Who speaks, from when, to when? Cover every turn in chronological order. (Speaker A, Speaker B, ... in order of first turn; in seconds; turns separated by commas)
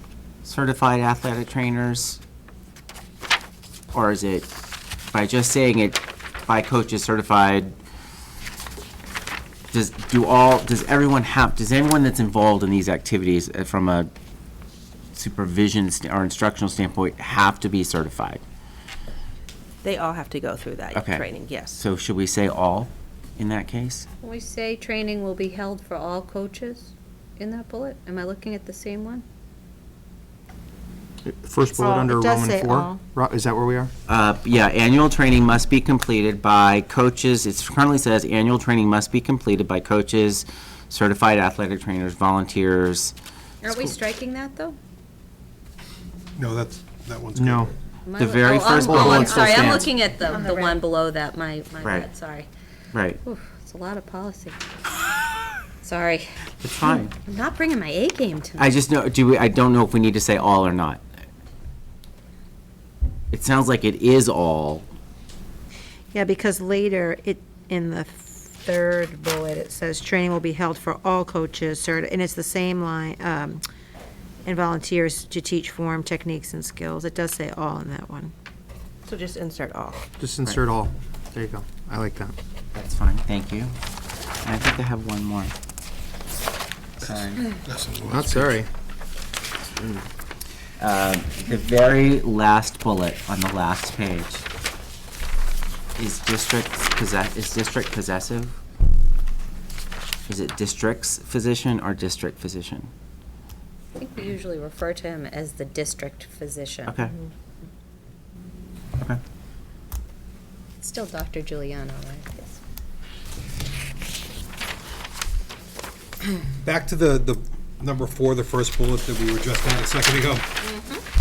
Speaker A: 0.4-2.2, Speaker A: 3.9-4.5, Speaker A: 5.1-7.7, Speaker A: 9.7-14.1, Speaker A: 15.1-18.4, Speaker B: 19.8-21.8, Speaker A: 20.9-24.1, Speaker C: 24.2-29.2, Speaker D: 31.2-33.9, Speaker E: 31.7-33.0, Speaker A: 34.1-43.1, Speaker C: 43.6-44.8, Speaker F: 46.4-47.7, Speaker D: 47.4-47.7, Speaker C: 48.0-52.5, Speaker A: 48.2-49.9, Speaker D: 48.8-49.9, Speaker E: 49.2-49.5, Speaker E: 50.2-50.8, Speaker A: 51.8-52.1, Speaker A: 52.9-53.2, Speaker C: 53.2-54.6, Speaker C: 55.8-56.3, Speaker A: 56.6-57.1, Speaker C: 57.2-58.8, Speaker A: 58.6-61.0, Speaker A: 63.3-64.9, Speaker E: 66.1-73.6, Speaker E: 74.4-78.3, Speaker B: 79.0-80.0, Speaker D: 80.2-82.3, Speaker A: 82.7-83.7, Speaker A: 84.4-85.5, Speaker A: 87.0-87.5, Speaker F: 87.6-88.6, Speaker D: 88.0-88.7, Speaker A: 90.8-94.5, Speaker A: 96.0-98.6, Speaker A: 100.3-102.9, Speaker C: 104.0-106.9, Speaker A: 106.9-107.1, Speaker C: 110.8-112.6, Speaker F: 116.6-120.5, Speaker C: 120.6-121.0